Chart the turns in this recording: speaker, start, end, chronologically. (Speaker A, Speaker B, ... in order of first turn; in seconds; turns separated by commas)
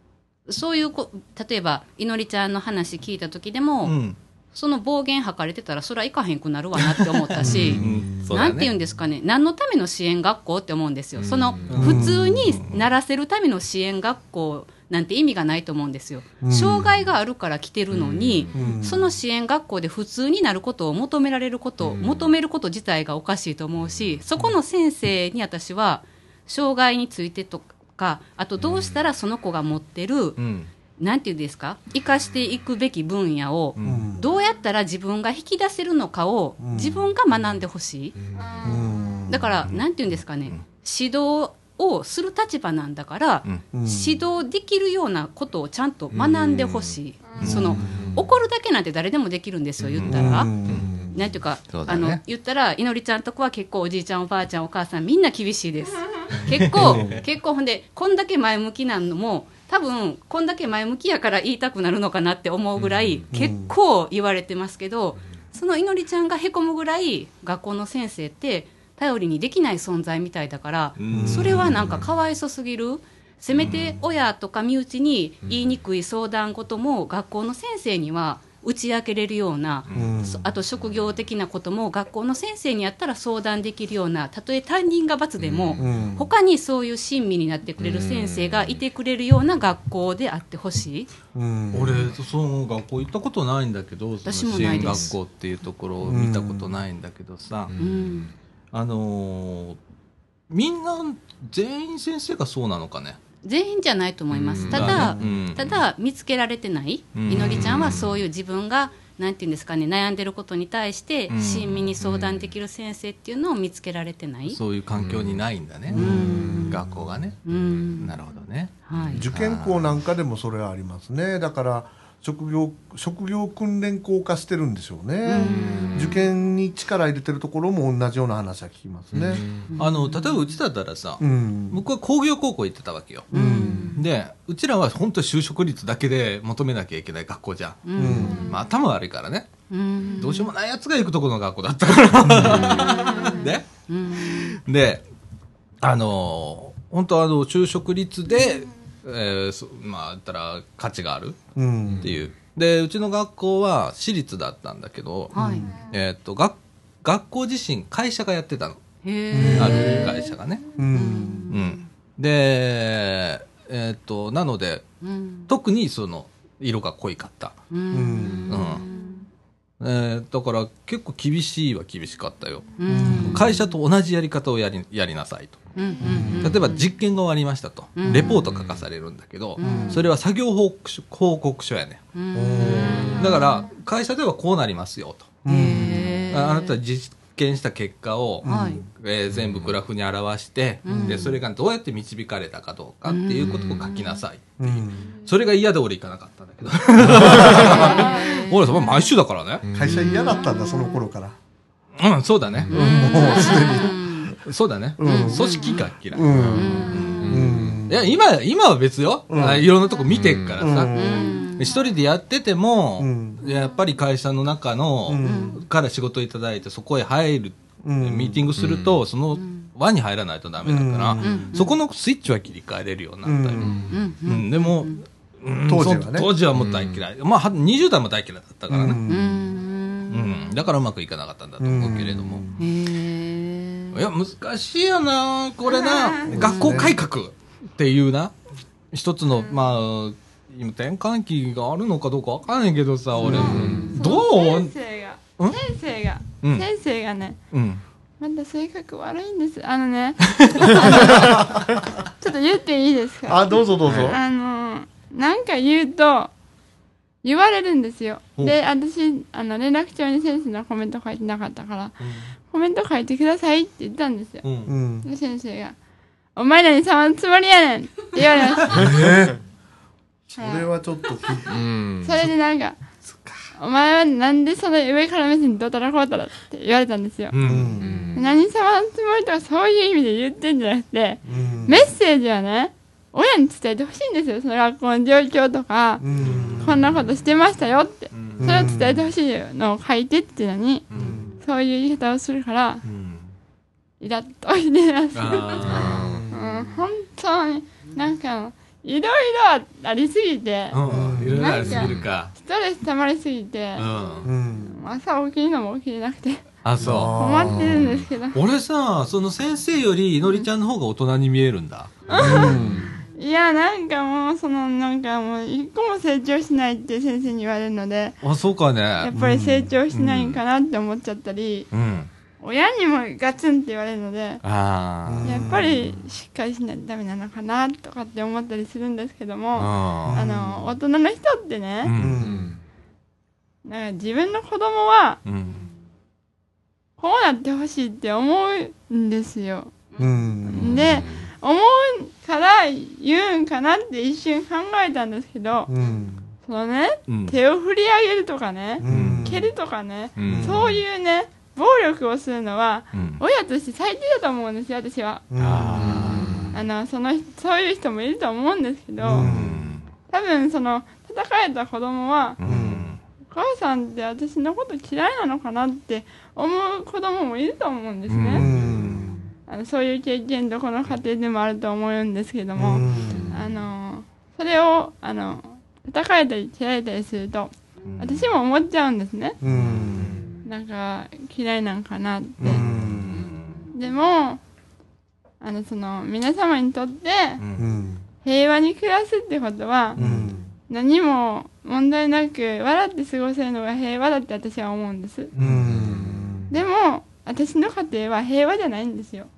Speaker A: 0.5-4.0, Speaker B: 3.8-4.2, Speaker A: 4.5-30.4, Speaker B: 6.8-8.7, Speaker C: 7.4-8.1, Speaker D: 7.7-8.0, Speaker D: 11.2-11.9, Speaker B: 11.7-12.8, Speaker C: 11.7-12.4, Speaker C: 16.4-16.9, Speaker D: 18.2-18.5, Speaker C: 18.5-19.1, Speaker D: 21.8-22.3, Speaker B: 30.4-30.7, Speaker A: 31.0-38.1, Speaker B: 33.8-34.1, Speaker C: 33.8-34.3, Speaker C: 36.6-37.1, Speaker E: 38.3-39.2, Speaker C: 38.6-39.5, Speaker A: 39.3-50.5, Speaker C: 43.7-44.2, Speaker D: 46.1-48.3, Speaker E: 47.3-47.7, Speaker B: 49.8-50.4, Speaker C: 50.0-51.1, Speaker D: 50.6-51.1, Speaker A: 51.1-91.1, Speaker B: 51.7-52.2, Speaker B: 56.5-57.2, Speaker C: 56.8-57.2, Speaker D: 62.8-63.2, Speaker C: 63.3-63.7, Speaker B: 71.0-71.9, Speaker C: 71.1-71.8, Speaker B: 73.6-73.9, Speaker D: 75.4-75.7, Speaker B: 79.9-80.2, Speaker C: 79.9-80.4, Speaker D: 85.4-86.0, Speaker C: 85.8-86.3, Speaker D: 87.8-88.8, Speaker C: 91.3-92.1, Speaker B: 91.7-97.7, Speaker A: 94.2-95.2, Speaker D: 94.6-95.1, Speaker C: 96.0-96.7, Speaker D: 97.7-98.3, Speaker A: 97.8-98.3, Speaker B: 98.7-99.8, Speaker B: 100.5-103.2, Speaker A: 103.4-114.6, Speaker D: 104.3-105.1, Speaker B: 104.7-105.7, Speaker B: 107.1-108.0, Speaker D: 107.5-108.1, Speaker B: 111.3-112.2, Speaker B: 114.5-119.9, Speaker D: 115.0-115.4, Speaker A: 115.9-116.8, Speaker D: 116.0-116.8, Speaker A: 117.4-118.2, Speaker D: 117.5-117.8, Speaker A: 118.8-119.2, Speaker C: 119.1-129.4, Speaker A: 125.2-126.2, Speaker D: 125.4-126.1, Speaker D: 129.1-129.7, Speaker A: 129.7-130.1, Speaker B: 129.8-133.3, Speaker C: 131.2-131.8, Speaker C: 133.3-133.9, Speaker A: 133.3-134.0, Speaker B: 133.9-137.8, Speaker A: 137.8-138.5, Speaker C: 137.9-138.5, Speaker E: 138.2-138.6, Speaker B: 138.4-139.5, Speaker A: 139.7-140.5, Speaker B: 140.1-145.0, Speaker A: 142.4-144.6, Speaker E: 142.8-143.5, Speaker B: 145.8-151.4, Speaker C: 151.6-152.1, Speaker B: 152.0-155.3, Speaker A: 155.3-155.7, Speaker C: 155.3-155.7, Speaker B: 155.9-158.8, Speaker A: 159.0-160.2, Speaker C: 159.3-160.1, Speaker B: 159.5-160.6, Speaker C: 160.7-161.6, Speaker A: 160.9-161.8, Speaker B: 161.5-164.8, Speaker A: 165.0-165.5, Speaker B: 165.5-167.6, Speaker A: 167.7-169.2, Speaker C: 167.9-168.6, Speaker B: 168.5-168.8, Speaker B: 169.8-175.6, Speaker A: 172.8-173.5, Speaker C: 172.9-173.6, Speaker A: 175.8-176.9, Speaker C: 176.0-176.6, Speaker B: 176.4-182.0, Speaker A: 177.9-178.5, Speaker A: 179.6-180.0, Speaker C: 179.6-180.0, Speaker A: 182.1-183.7, Speaker C: 182.3-183.4, Speaker B: 182.6-185.4, Speaker C: 185.4-186.3, Speaker A: 185.5-186.8, Speaker B: 186.3-199.6, Speaker C: 188.4-188.8, Speaker A: 188.4-188.8, Speaker A: 190.8-191.4, Speaker C: 190.9-191.2, Speaker A: 193.1-194.2, Speaker C: 194.6-195.1, Speaker C: 197.0-197.8, Speaker D: 197.1-197.5, Speaker A: 197.3-199.1, Speaker E: 197.7-198.4, Speaker D: 199.6-200.3, Speaker C: 199.7-201.3, Speaker A: 199.8-201.0, Speaker B: 202.0-202.8, Speaker A: 202.7-204.3, Speaker C: 202.7-204.4, Speaker B: 204.4-229.0, Speaker C: 205.0-208.1, Speaker A: 205.0-205.8, Speaker D: 206.3-207.9, Speaker A: 206.5-207.4, Speaker C: 209.3-209.7, Speaker D: 210.1-210.6, Speaker C: 210.6-211.4, Speaker A: 210.9-211.8, Speaker E: 211.2-211.7, Speaker C: 213.0-213.4, Speaker C: 215.0-215.6, Speaker A: 215.2-215.6, Speaker C: 217.8-218.5, Speaker D: 218.6-219.0, Speaker A: 219.3-219.7, Speaker C: 220.6-221.5, Speaker A: 221.2-221.8, Speaker C: 223.2-223.9, Speaker A: 223.9-225.0, Speaker C: 225.7-226.3, Speaker D: 226.5-227.0, Speaker C: 228.7-229.4, Speaker A: 229.1-230.5, Speaker B: 230.1-232.5, Speaker C: 231.6-232.6, Speaker A: 232.6-234.0, Speaker B: 233.9-238.3, Speaker E: 235.6-236.4, Speaker C: 236.3-237.0, Speaker A: 236.4-236.9, Speaker B: 238.9-244.7, Speaker E: 243.2-247.4, Speaker A: 243.2-243.9, Speaker D: 243.3-244.0, Speaker B: 246.4-246.7, Speaker B: 247.5-247.8, Speaker E: 248.2-251.6, Speaker B: 250.4-251.2, Speaker C: 250.8-251.6, Speaker E: 252.2-256.3, Speaker C: 253.2-254.2, Speaker B: 253.8-254.2, Speaker E: 257.2-264.4, Speaker B: 262.0-262.3, Speaker B: 264.4-264.8, Speaker C: 264.7-265.1, Speaker E: 265.0-265.7, Speaker E: 266.3-269.0, Speaker C: 268.7-269.4, Speaker C: 270.3-271.6, Speaker E: 270.4-270.7, Speaker D: 271.5-272.1, Speaker E: 272.0-272.8, Speaker B: 273.1-273.4, Speaker E: 273.6-277.4, Speaker B: 277.3-277.8, Speaker C: 277.4-278.1, Speaker D: 277.8-278.2, Speaker E: 278.1-286.1, Speaker C: 281.2-281.9, Speaker C: 286.0-286.8, Speaker E: 286.6-290.9, Speaker B: 288.1-288.8, Speaker C: 288.4-289.1, Speaker B: 290.9-291.2, Speaker C: 290.9-291.4, Speaker E: 291.4-292.8, Speaker B: 292.8-293.3, Speaker E: 294.0-303.9, Speaker B: 295.1-296.2, Speaker D: 295.6-296.3, Speaker C: 295.7-296.8, Speaker B: 300.7-302.3, Speaker C: 300.9-301.6, Speaker D: 301.7-302.0, Speaker B: 303.8-304.3, Speaker C: 304.2-304.8, Speaker E: 304.6-306.5, Speaker B: 306.6-307.7, Speaker C: 306.8-307.9, Speaker E: 307.1-308.4, Speaker D: 307.7-308.0, Speaker B: 308.3-312.5, Speaker E: 312.1-312.6, Speaker C: 312.1-312.9, Speaker D: 312.3-312.9, Speaker E: 313.1-318.2, Speaker B: 318.2-319.1, Speaker E: 319.0-321.7, Speaker C: 319.1-319.7, Speaker B: 319.9-320.4, Speaker B: 321.7-322.1, Speaker E: 322.4-324.4, Speaker B: 324.4-325.5, Speaker C: 325.0-325.9, Speaker E: 325.2-331.9, Speaker B: 329.6-330.2, Speaker C: 330.1-330.7, Speaker B: 331.8-332.2, Speaker C: 332.0-332.5, Speaker D: 332.1-332.6, Speaker E: 333.6-335.2, Speaker B: 335.2-335.6, Speaker E: 337.0-339.7, Speaker C: 340.0-341.0, Speaker E: 340.4-345.7, Speaker B: 340.6-341.3, Speaker D: 340.8-341.1, Speaker C: 345.7-346.3, Speaker E: 346.4-355.3, Speaker B: 347.1-347.4, Speaker C: 348.8-349.5, Speaker B: 348.9-349.3, Speaker B: 350.1-350.8, Speaker C: 350.2-350.7, Speaker B: 352.9-353.2, Speaker C: 355.3-356.4, Speaker B: 355.4-356.5, Speaker D: 356.1-356.5, Speaker E: 356.5-359.3, Speaker C: 359.0-359.6, Speaker B: 359.1-359.9, Speaker E: 360.1-362.4, Speaker B: 362.4-363.0, Speaker C: 362.4-362.9, Speaker E: 363.3-368.5, Speaker B: 368.1-369.0, Speaker C: 368.3-369.2, Speaker E: 369.5-379.4, Speaker C: 372.5-373.4, Speaker D: 373.1-373.4, Speaker B: 377.8-378.3, Speaker C: 379.4-380.2, Speaker D: 379.9-380.3, Speaker E: 380.4-382.6, Speaker C: 382.4-383.3, Speaker B: 382.4-383.6, Speaker A: 383.1-383.7, Speaker E: 383.7-384.4, Speaker E: 385.4-387.4, Speaker B: 387.4-387.6, Speaker C: 387.6-388.0, Speaker E: 388.2-390.0, Speaker C: 389.9-390.5, Speaker E: 390.7-395.3, Speaker C: 395.4-396.5, Speaker B: 395.4-395.6, Speaker D: 395.6-396.4, Speaker E: 396.5-399.3